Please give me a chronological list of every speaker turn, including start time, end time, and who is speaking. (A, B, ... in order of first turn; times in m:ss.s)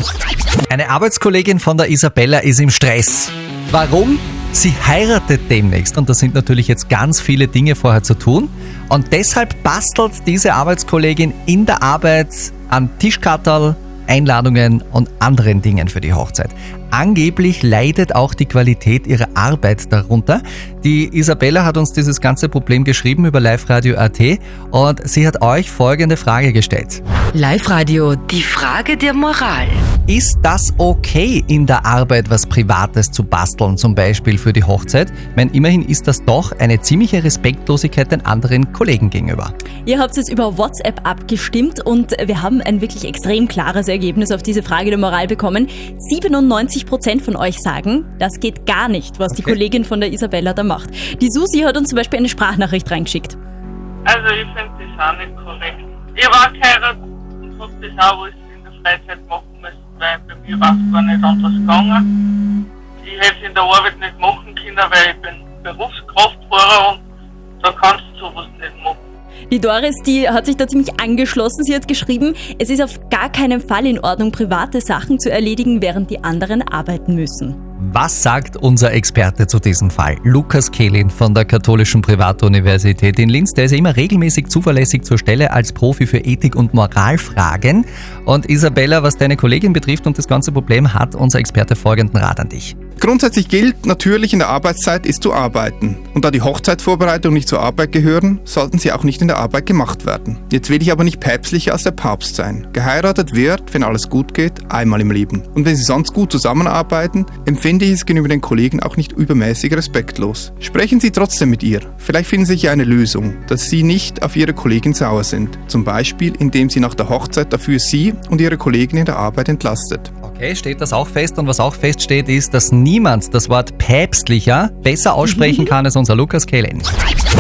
0:00.7-0:27.0 A
0:27.4-0:29.8 B
0:30.1-0:39.5 A
0:39.9-0:53.4 C
0:54.0-1:02.1 D
1:03.0-1:07.0 D
1:07.6-1:09.0 D
1:09.5-1:17.6 C
1:17.8-1:32.8 A
1:33.0-2:00.1 E
2:00.2-2:06.9 A